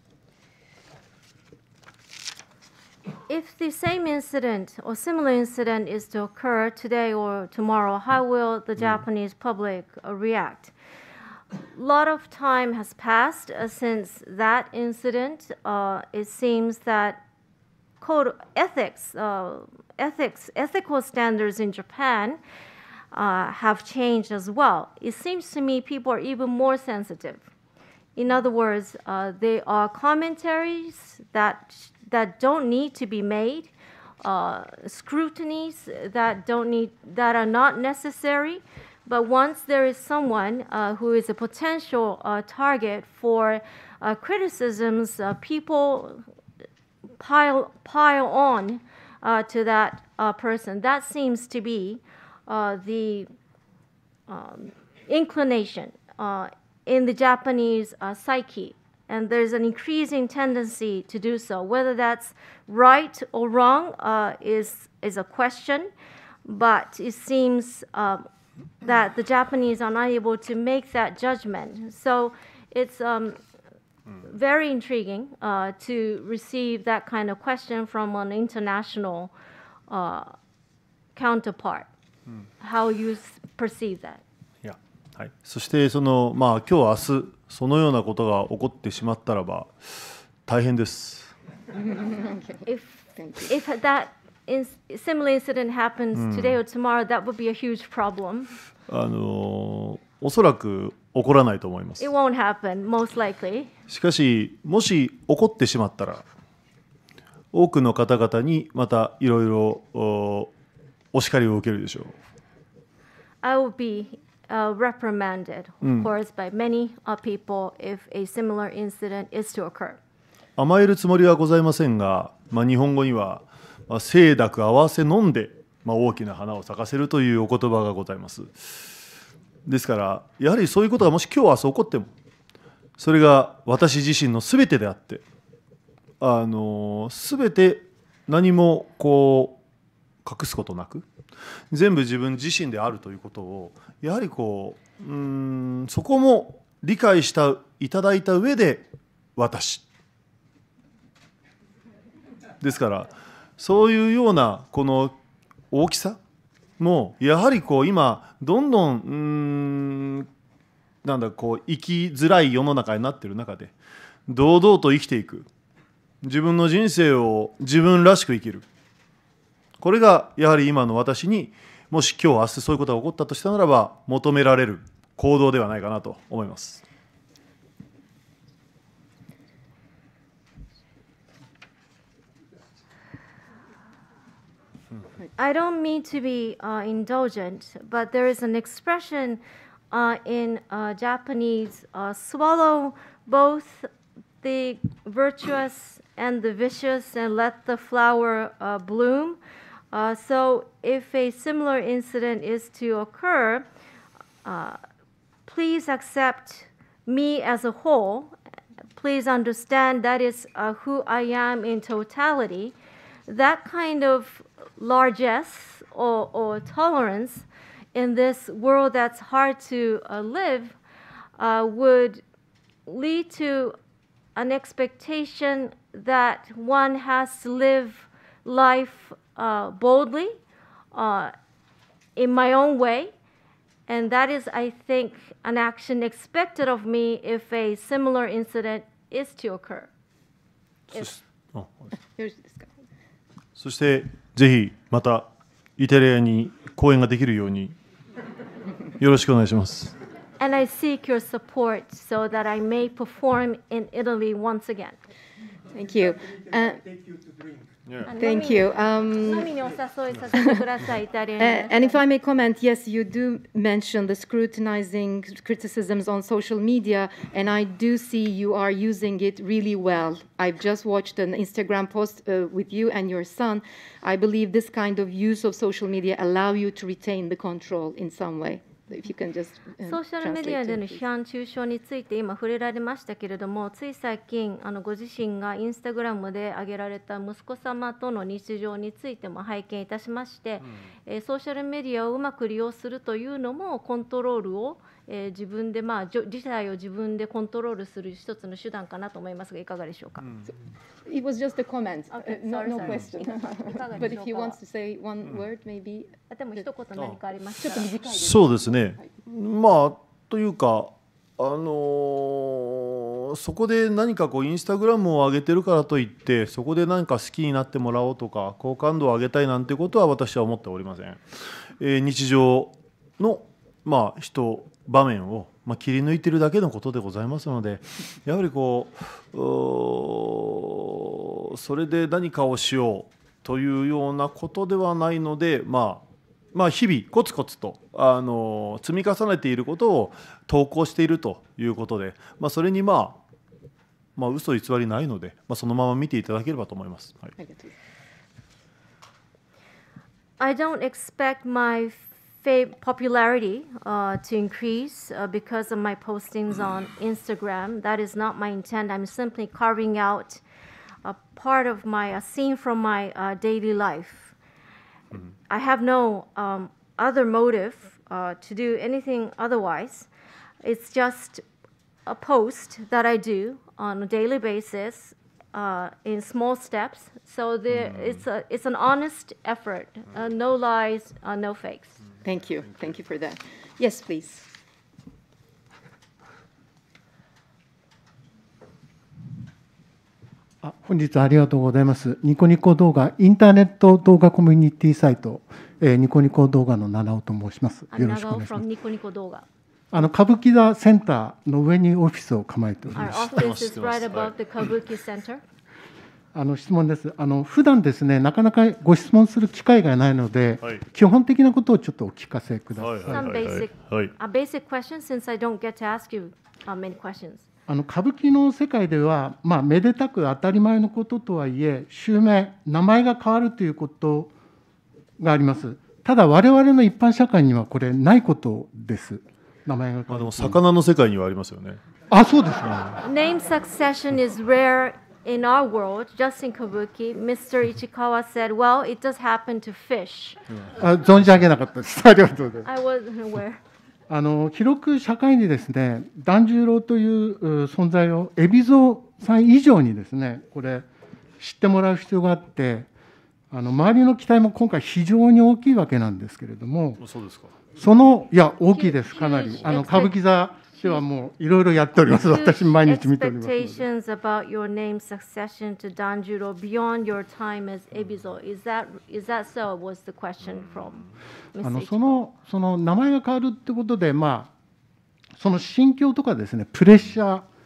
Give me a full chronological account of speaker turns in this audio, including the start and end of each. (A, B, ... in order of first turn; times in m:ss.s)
0:03.3-0:10.7 A
0:11.7-0:17.2 A
0:18.0-0:22.4 A
0:23.1-0:27.5 A
0:28.2-0:33.7 A
0:34.2-0:46.2 A
0:47.2-0:53.3 A
0:54.3-1:05.9 A
1:06.4-1:08.2 A
1:08.8-1:13.4 A
1:14.2-1:19.3 A
1:19.9-1:20.3 A
1:21.2-1:21.9 A
1:22.6-1:24.2 A
1:24.6-1:31.3 B
1:31.7-1:32.6 C
1:32.6-1:38.5 A
1:33.2-1:33.5 C
1:36.1-1:36.6 B
1:38.9-1:42.1 B
1:42.0-1:43.7 A
1:43.9-1:46.2 B
1:47.5-1:50.5 B
1:51.1-1:52.2 B
1:53.4-2:00.0 A
1:55.8-1:56.1 B
2:00.6-2:08.9 B
2:09.6-2:12.1 B
2:13.0-2:15.2 B
2:16.2-2:19.6 B
2:20.2-2:21.0 B
2:21.7-2:29.8 B
2:32.6-2:35.1 B
2:35.7-2:36.2 B
2:36.8-2:40.3 B
2:41.0-2:43.7 B
2:44.3-2:45.5 B
2:46.2-2:48.6 B
2:49.8-2:56.8 B
3:05.4-3:13.9 A
3:14.4-3:19.4 A
3:19.9-3:23.6 A
3:24.4-3:24.8 A
3:25.4-3:28.3 A
3:29.0-3:32.7 A
3:33.3-3:40.8 A
3:41.4-3:42.2 A
3:42.8-3:43.8 A
3:44.4-3:50.4 A
3:50.9-3:51.3 A
3:52.2-3:53.1 A
3:53.9-3:59.9 A
4:00.9-4:01.9 B
4:02.0-4:02.7 C
4:03.6-4:07.7 B
4:09.0-4:10.0 B
4:10.4-4:15.0 A
4:15.7-4:17.0 C
4:17.8-4:18.1 B
4:18.0-4:22.0 A
4:18.2-4:19.6 C
4:20.3-4:20.6 C
4:21.4-4:41.0 C
4:39.8-5:00.2 A
5:00.2-5:00.5 B
5:01.0-5:06.1 C
5:02.1-5:04.6 A
5:06.3-5:07.9 A
5:07.6-5:09.1 C
5:08.1-5:43.2 B
5:44.2-5:47.3 B
5:47.4-5:47.7 C
5:50.4-6:00.4 A
6:01.0-6:04.3 A
6:05.5-6:10.1 A
6:10.6-6:11.4 A
6:12.0-6:22.0 A
6:17.7-6:18.2 B
6:22.2-6:24.5 C
6:30.6-6:38.6 D
6:37.9-6:39.4 A
6:39.9-6:43.2 D
6:43.0-6:44.3 B
6:43.0-6:45.4 A
6:46.3-6:53.6 D
6:52.8-6:54.1 B
6:53.1-6:57.4 A
6:57.7-7:04.3 D
7:05.2-7:10.6 D
7:10.1-7:11.8 B
7:12.1-7:13.0 D
7:13.0-7:20.4 A
7:20.5-7:21.5 B
7:20.7-7:22.7 D
7:22.6-7:23.6 A
7:24.1-7:30.9 D
7:31.4-7:32.9 D
7:33.5-7:37.0 D
7:37.0-7:37.5 B
7:37.8-7:43.8 D
7:38.7-7:40.2 A
7:39.6-7:40.0 B
7:40.8-7:41.0 A
7:42.1-7:51.0 A
7:51.5-7:52.2 A
7:51.6-7:54.5 D
7:55.4-7:57.4 D